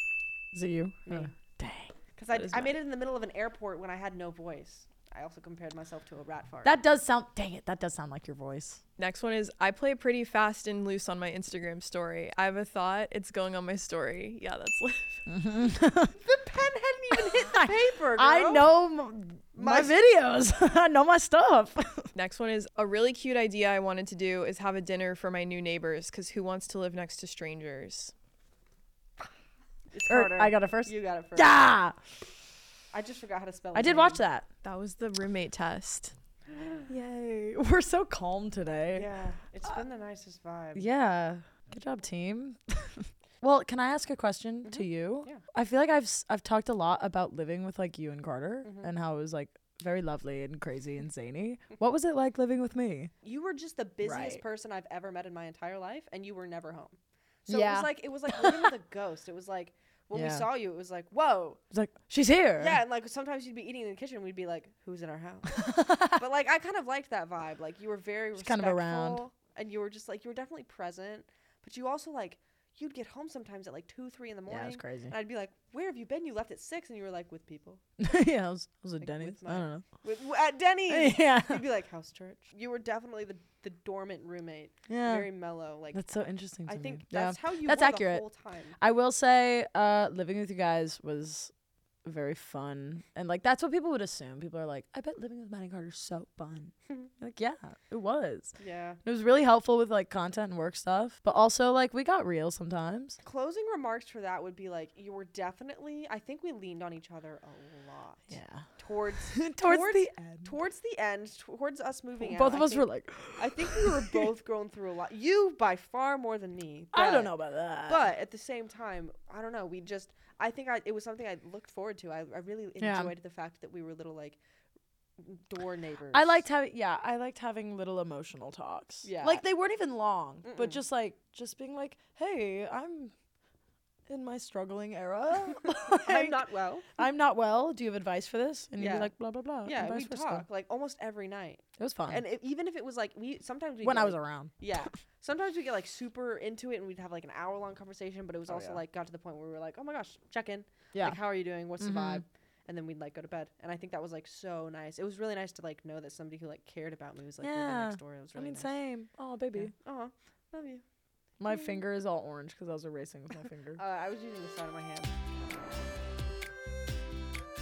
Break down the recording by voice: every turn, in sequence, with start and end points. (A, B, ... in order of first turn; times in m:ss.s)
0:00.5-0:01.9 A
0:02.2-0:06.8 B
0:02.4-0:02.7 C
0:06.6-0:08.8 A
0:09.0-0:15.2 C
0:15.3-0:16.2 A
0:16.2-0:18.7 B
0:17.1-0:22.1 A
0:19.5-0:20.0 B
0:22.2-0:28.1 C
0:29.9-0:31.5 B
0:30.1-0:32.0 A
0:32.9-0:34.2 B
0:33.7-0:34.5 A
0:34.6-0:36.2 C
0:36.5-0:36.9 B
0:36.9-0:39.1 A
0:38.9-0:40.9 B
0:40.8-0:53.1 A
0:44.6-0:45.4 B
0:48.6-0:48.9 B
0:53.2-1:01.6 B
0:54.0-0:54.4 A
0:57.5-0:58.7 A
1:00.1-1:00.5 A
1:01.7-1:02.8 A
1:02.6-1:17.8 B
1:05.5-1:06.2 A
1:08.4-1:09.2 A
1:14.5-1:15.1 A
1:18.0-1:19.8 A
1:19.0-1:26.0 B
1:20.9-1:21.6 A
1:24.9-1:25.3 A
1:25.9-1:28.2 A
1:26.7-1:28.8 B
1:28.8-1:31.5 A
1:32.0-1:43.2 A
1:38.6-1:39.0 B
1:43.2-1:57.3 B
1:48.3-1:48.7 A
1:49.3-1:50.5 A
1:52.2-1:54.3 A
1:56.9-1:58.0 A
1:57.9-2:04.4 B
2:02.8-2:03.1 A
2:05.2-2:06.4 B
2:06.1-2:13.1 A
2:09.0-2:09.4 B
2:10.4-2:10.8 B
2:14.1-2:16.4 A
2:15.7-2:16.9 B
2:17.0-2:20.5 A
2:18.8-2:19.1 B
2:19.6-2:38.7 B
2:21.8-2:22.2 A
2:23.8-2:24.6 A
2:28.5-2:28.8 A
2:30.9-2:31.2 A
2:31.8-2:32.2 A
2:37.4-2:39.7 A
2:39.6-2:40.8 B
2:41.4-2:43.8 A
2:41.4-2:41.8 B
2:43.8-2:45.2 B